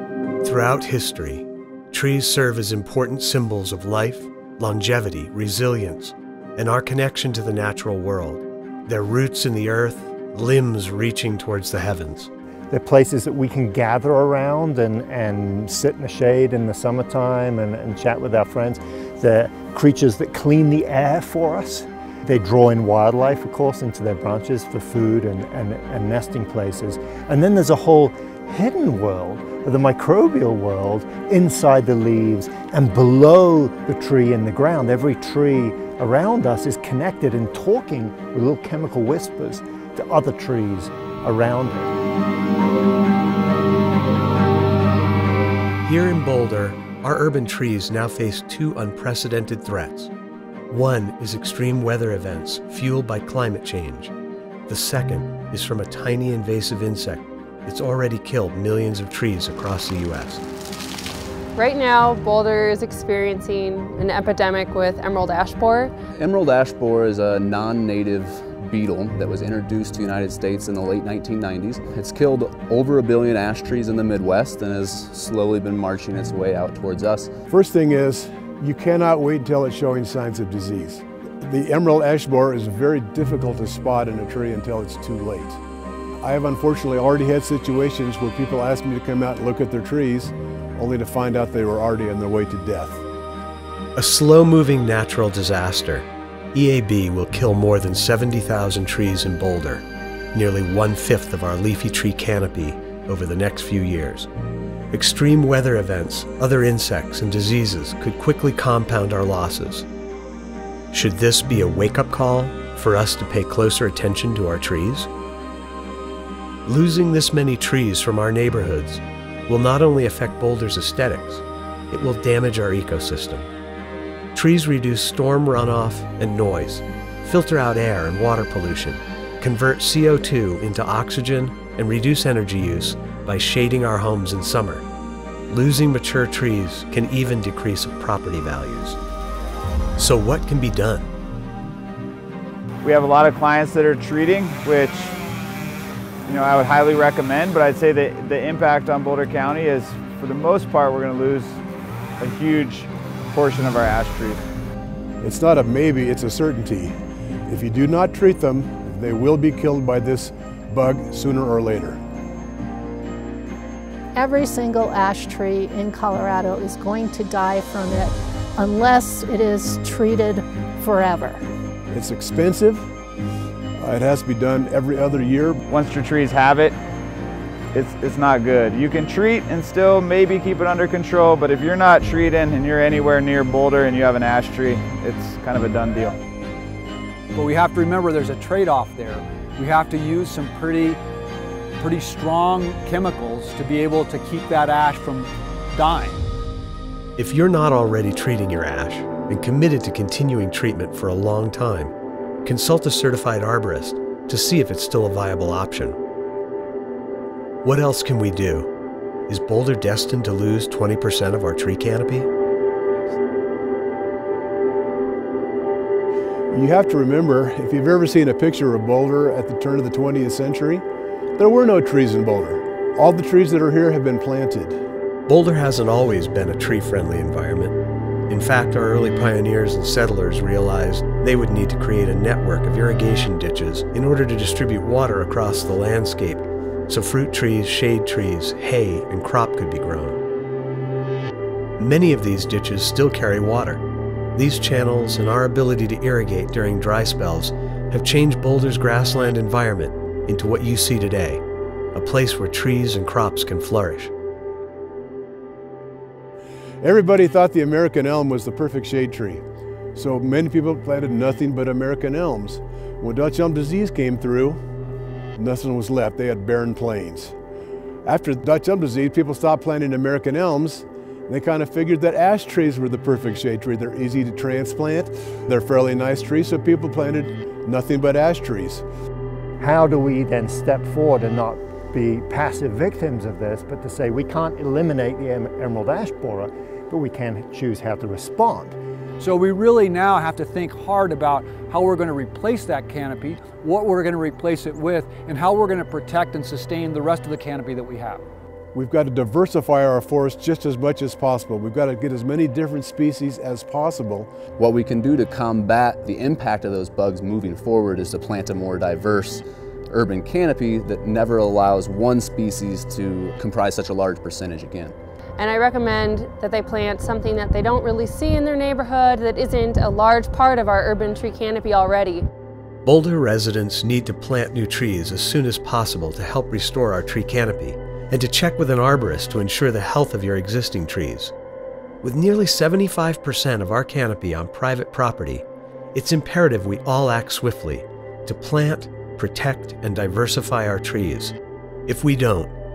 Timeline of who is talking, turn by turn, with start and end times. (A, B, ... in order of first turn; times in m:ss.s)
0:00.4-0:12.3 A
0:12.7-0:41.9 B
0:45.8-0:50.1 A
0:50.7-0:54.1 A
0:54.7-1:00.4 A
1:01.6-1:05.9 C
1:06.2-1:17.3 D
1:17.5-1:25.6 E
1:26.2-1:33.0 E
1:34.0-1:44.3 A
1:44.9-1:49.9 A
1:50.9-1:55.1 A
1:56.6-2:03.5 A
2:04.3-2:14.8 A
2:15.5-2:19.0 A
2:20.0-2:21.1 A
2:22.8-2:25.2 F
2:26.2-2:31.6 F
2:32.2-2:34.4 F
2:35.2-2:36.9 E
2:37.5-2:42.0 E
2:44.1-2:51.4 G
2:51.9-2:52.9 E
2:53.8-2:55.6 E
2:55.7-2:56.8 F
2:57.7-3:06.2 F
3:07.3-3:11.0 H
3:11.8-3:16.3 H
3:17.2-3:21.9 A
3:22.4-3:26.0 A
3:27.6-3:28.7 A
3:29.3-3:32.3 A
3:36.5-3:40.8 E
3:41.4-3:44.8 E
3:45.3-3:47.8 A
3:48.3-4:00.2 A
4:01.8-4:03.8 A
4:04.3-4:11.4 A
4:11.9-4:14.1 A
4:16.8-4:19.4 E
4:20.0-4:24.6 E
4:25.4-4:27.3 E
4:28.0-4:38.8 E
4:39.6-4:48.8 B
4:49.2-4:58.2 H
4:58.7-5:04.3 E
5:04.6-5:15.0 D
5:15.4-5:22.3 C
5:22.8-5:31.3 A
5:32.0-5:41.4 A
5:41.9-5:42.5 A